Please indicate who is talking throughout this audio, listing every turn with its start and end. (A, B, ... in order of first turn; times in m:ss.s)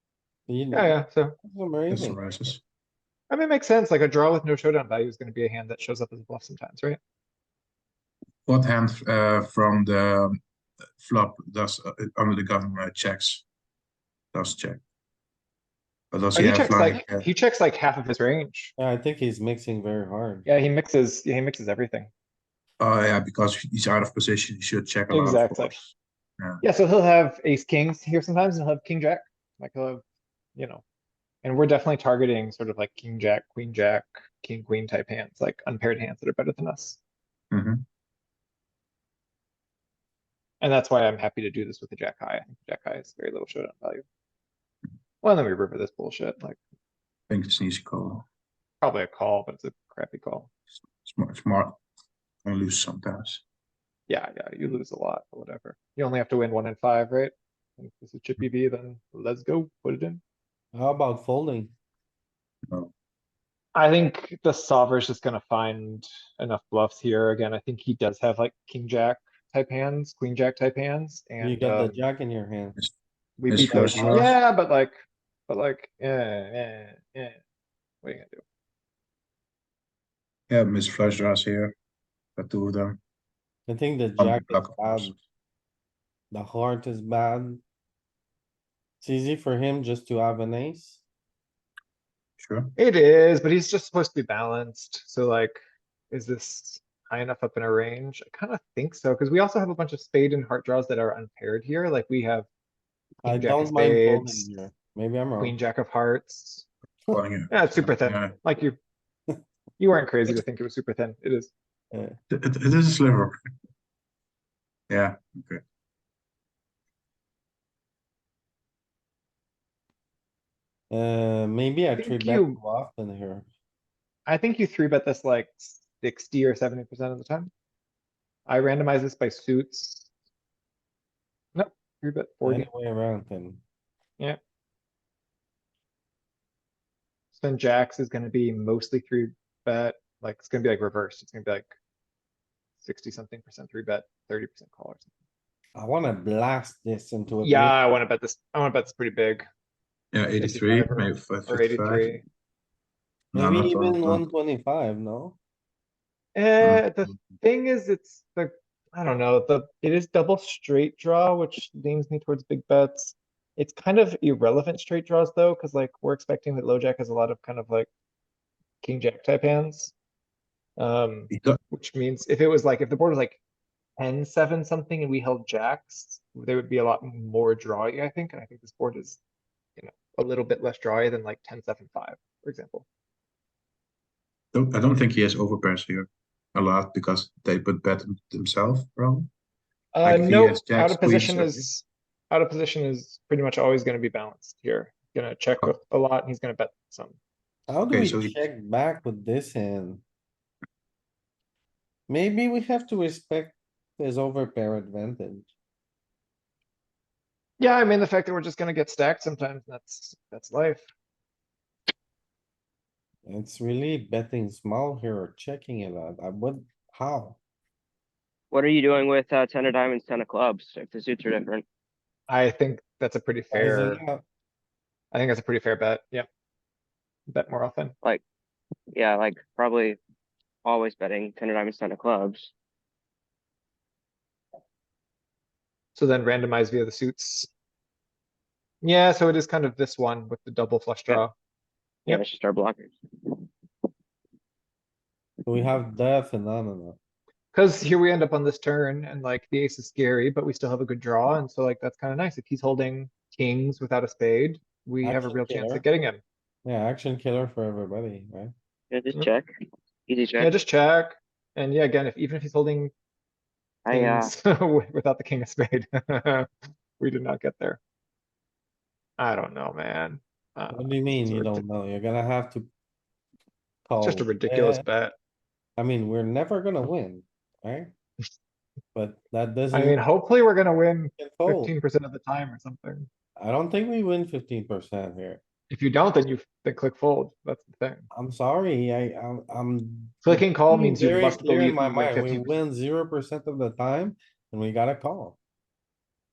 0:00.5-0:02.3 A
0:00.7-0:01.4 B
0:01.9-0:02.6 C
0:03.3-0:07.0 B
0:08.5-0:10.4 C
0:11.0-0:13.4 C
0:14.3-0:14.8 C
0:16.1-0:17.3 C
0:16.4-0:18.7 B
0:18.8-0:20.5 A
0:20.5-0:22.1 B
0:22.8-0:26.6 C
0:25.1-0:25.8 B
0:26.6-0:30.0 B
0:30.6-0:30.8 B
0:31.4-0:37.0 B
0:37.5-0:37.8 C
0:40.6-0:44.0 B
0:45.2-0:46.6 B
0:47.3-0:48.2 C
0:48.8-0:50.5 B
0:51.0-0:51.8 C
0:52.4-0:53.4 C
0:54.1-1:00.2 B
1:00.7-1:01.7 A
1:03.8-1:12.0 B
1:11.4-1:12.8 A
1:13.4-1:14.9 B
1:13.5-1:14.3 C
1:13.5-1:14.3 A
1:15.5-1:17.4 B
1:18.0-1:18.4 B
1:20.5-1:21.8 C
1:22.4-1:23.0 C
1:23.7-1:25.1 A
1:24.2-1:25.2 C
1:26.3-1:27.6 A
1:29.0-1:31.0 A
1:32.4-1:32.8 C
1:32.8-1:35.6 B
1:36.1-1:42.5 B
1:43.2-1:44.5 B
1:43.2-1:45.6 A
1:45.4-1:46.7 B
1:47.1-1:48.4 C
1:47.5-1:48.8 B
1:49.8-1:51.5 B
1:51.9-1:52.2 A
1:52.3-1:53.4 C
1:54.9-1:55.6 C
2:00.9-2:03.5 A
2:02.0-2:02.6 B
2:04.3-2:07.5 B
2:08.5-2:10.1 B
2:11.6-2:12.7 B
2:12.4-2:13.6 A
2:17.3-2:21.7 B
2:22.8-2:25.1 B
2:25.8-2:27.8 A
2:27.4-2:29.5 B
2:30.1-2:32.2 C
2:30.4-2:32.2 B
2:33.3-2:34.2 C
2:33.4-2:35.4 A
2:36.4-2:47.9 B
2:36.6-2:36.9 C
2:48.8-2:49.9 B
2:50.8-2:53.4 B
2:51.3-2:51.6 C
2:54.0-2:59.2 B
2:59.8-3:02.8 B
3:04.5-3:09.3 C
3:09.9-3:17.2 B
3:10.0-3:11.7 C
3:17.7-3:20.0 A
3:17.9-3:18.4 C
3:22.1-3:25.5 A
3:27.6-3:30.9 B
3:33.3-3:37.4 A
3:38.5-3:41.6 D
3:42.3-3:44.0 B
3:43.5-3:44.2 A
3:45.1-3:46.3 B
3:47.3-3:48.0 B
3:48.9-3:50.0 D
3:50.6-3:52.5 D
3:56.0-3:57.5 B
3:58.8-4:01.3 B
4:02.1-4:03.4 D
4:05.4-4:07.0 A
4:07.5-4:16.2 B
4:15.0-4:15.8 A
4:16.6-4:18.5 A
4:18.9-4:19.5 D
4:20.1-4:20.5 D
4:20.4-4:22.9 B
4:23.9-4:24.3 D
4:23.9-4:26.5 B
4:27.0-4:27.8 B
4:29.2-4:31.6 B
4:30.7-4:32.7 A
4:33.9-4:34.8 A
4:34.0-4:35.1 B
4:35.8-4:37.9 A
4:38.9-4:40.0 A
4:39.7-4:43.1 B
4:41.2-4:41.7 A
4:43.4-4:45.4 A
4:45.7-4:48.1 B
4:48.1-4:55.4 A
4:50.2-4:52.6 B